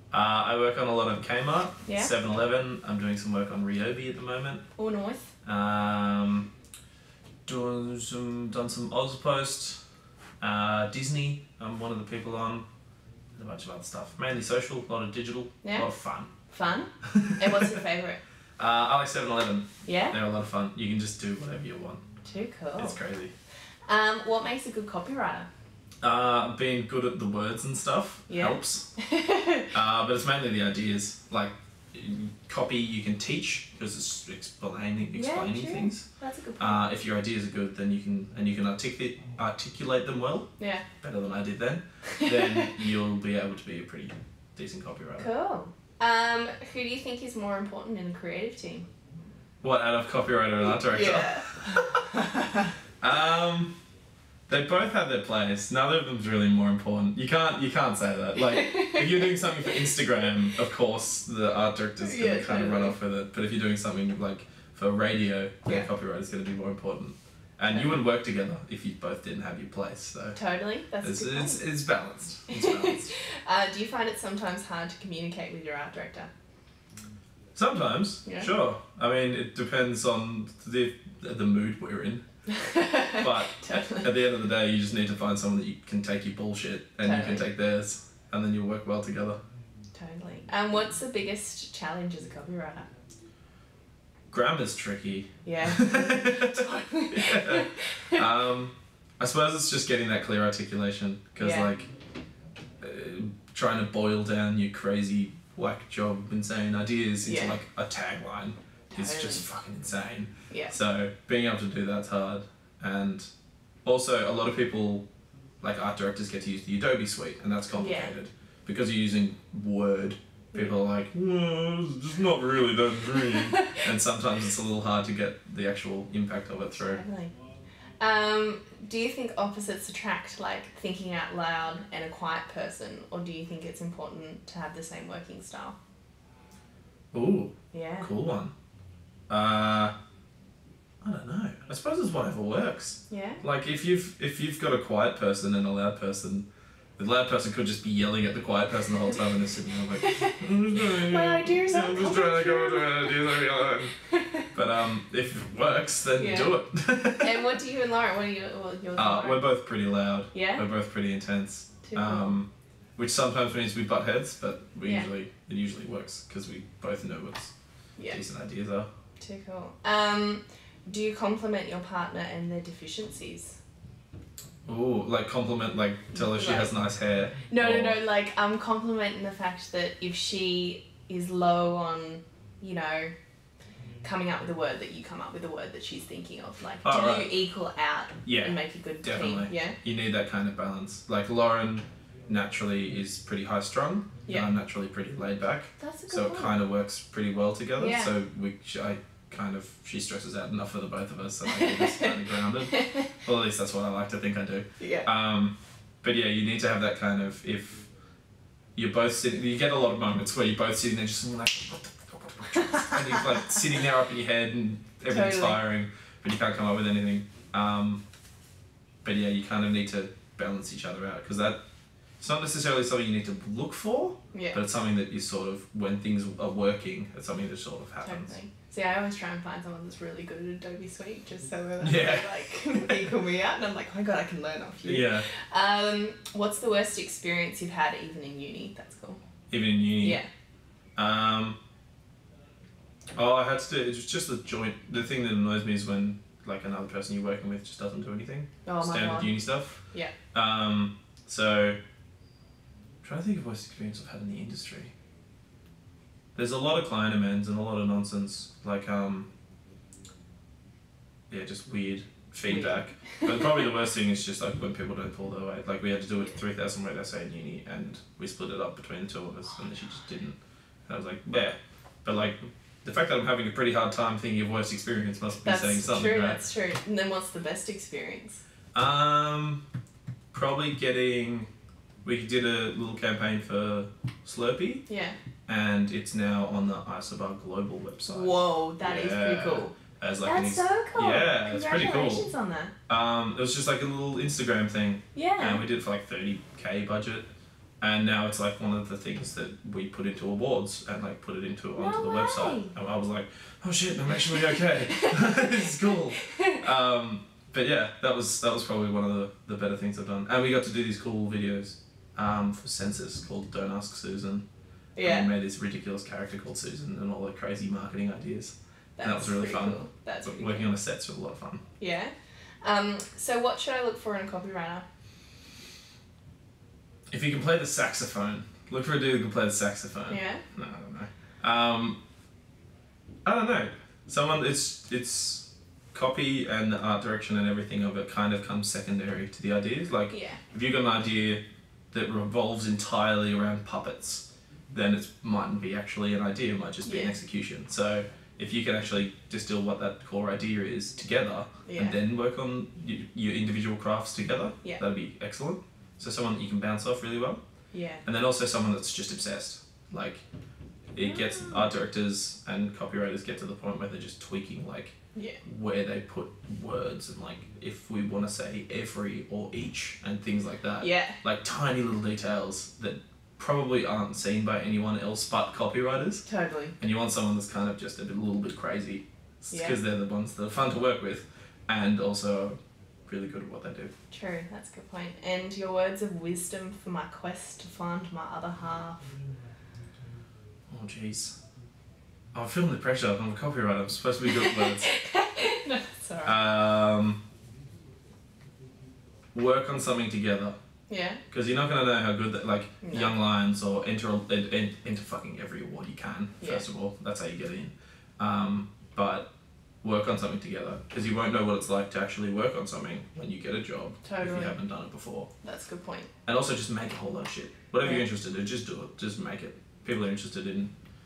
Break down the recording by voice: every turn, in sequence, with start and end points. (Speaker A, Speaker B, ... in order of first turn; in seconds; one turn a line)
Speaker A: 0.1-4.7
Speaker B: 1.9-2.1
Speaker B: 4.8-5.3
Speaker A: 5.4-6.5
Speaker A: 7.5-9.8
Speaker A: 10.4-12.7
Speaker A: 13.3-16.3
Speaker B: 15.6-15.9
Speaker B: 16.5-18.2
Speaker A: 17.0-17.4
Speaker A: 18.6-22.0
Speaker B: 19.8-20.2
Speaker B: 22.2-23.0
Speaker A: 22.8-23.3
Speaker B: 23.9-25.5
Speaker A: 26.0-28.9
Speaker B: 28.3-29.7
Speaker A: 29.7-36.0
Speaker B: 35.1-36.8
Speaker A: 36.6-40.5
Speaker B: 40.6-40.8
Speaker A: 41.0-45.3
Speaker B: 42.2-42.7
Speaker B: 45.2-48.9
Speaker A: 49.6-51.6
Speaker B: 50.7-52.6
Speaker A: 53.0-53.7
Speaker A: 54.5-70.4
Speaker B: 58.6-59.0
Speaker B: 62.0-62.9
Speaker B: 70.3-71.6
Speaker A: 71.0-73.1
Speaker B: 72.5-76.3
Speaker A: 77.5-82.2
Speaker B: 82.5-84.1
Speaker A: 83.2-89.4
Speaker B: 87.0-87.5
Speaker B: 89.9-92.9
Speaker A: 94.3-101.9
Speaker B: 95.4-98.2
Speaker B: 101.4-101.7
Speaker A: 102.8-113.3
Speaker B: 107.2-107.6
Speaker B: 108.9-109.4
Speaker A: 113.8-115.0
Speaker A: 115.6-127.0
Speaker B: 117.7-118.1
Speaker B: 126.7-127.3
Speaker B: 128.0-135.8
Speaker A: 137.1-138.5
Speaker B: 137.7-138.1
Speaker A: 139.3-139.9
Speaker A: 141.0-146.4
Speaker B: 143.1-143.4
Speaker A: 147.0-153.9
Speaker B: 150.0-153.5
Speaker B: 154.1-154.5
Speaker A: 154.5-157.5
Speaker B: 156.2-156.5
Speaker B: 157.2-159.4
Speaker A: 159.0-168.9
Speaker B: 160.3-160.6
Speaker B: 161.8-162.3
Speaker B: 164.8-165.1
Speaker B: 167.9-168.2
Speaker B: 169.2-173.6
Speaker A: 174.7-178.0
Speaker B: 176.1-176.7
Speaker B: 177.5-183.1
Speaker B: 184.0-189.8
Speaker A: 186.8-187.3
Speaker A: 188.2-207.9
Speaker B: 195.8-196.5
Speaker B: 197.8-198.1
Speaker B: 201.4-203.0
Speaker B: 204.8-205.1
Speaker A: 208.8-218.0
Speaker B: 215.1-215.6
Speaker A: 219.0-221.6
Speaker A: 222.2-228.3
Speaker B: 224.3-224.6
Speaker B: 228.0-239.2
Speaker A: 231.8-232.8
Speaker A: 234.8-235.3
Speaker A: 239.5-240.2
Speaker B: 240.0-240.3
Speaker A: 241.0-241.6
Speaker A: 243.1-249.8
Speaker B: 248.6-250.1
Speaker A: 250.3-251.8
Speaker A: 253.0-254.9
Speaker A: 256.4-259.3
Speaker A: 261.3-276.4
Speaker B: 262.4-263.5
Speaker B: 275.4-278.4
Speaker A: 278.7-279.6
Speaker A: 280.3-281.5
Speaker A: 282.0-284.8
Speaker B: 284.9-285.2
Speaker A: 285.5-292.2
Speaker B: 288.1-292.7
Speaker A: 292.9-297.3
Speaker B: 295.1-295.6
Speaker A: 297.8-314.4
Speaker B: 301.8-302.7
Speaker B: 304.9-305.5
Speaker B: 306.3-306.5
Speaker B: 314.9-315.3
Speaker A: 315.0-321.6
Speaker B: 319.0-320.7
Speaker B: 321.8-324.8
Speaker A: 327.1-332.0
Speaker B: 330.1-330.4
Speaker A: 333.2-357.4
Speaker B: 340.1-340.4
Speaker B: 346.8-347.1
Speaker B: 351.6-352.0
Speaker B: 357.7-358.0
Speaker A: 358.0-360.2
Speaker A: 360.9-376.2
Speaker B: 361.0-361.6
Speaker B: 365.1-365.4
Speaker B: 370.8-371.2
Speaker B: 376.2-376.7
Speaker A: 376.8-383.9
Speaker B: 379.5-379.8
Speaker B: 384.1-389.1
Speaker A: 390.7-391.3
Speaker A: 392.3-394.9
Speaker B: 394.4-396.4
Speaker A: 396.2-397.2
Speaker A: 399.3-400.6
Speaker B: 400.9-401.2
Speaker A: 401.3-409.3
Speaker B: 402.8-403.1
Speaker B: 406.4-406.6
Speaker A: 409.8-415.3
Speaker B: 414.0-414.6
Speaker B: 415.4-416.1
Speaker A: 416.2-420.7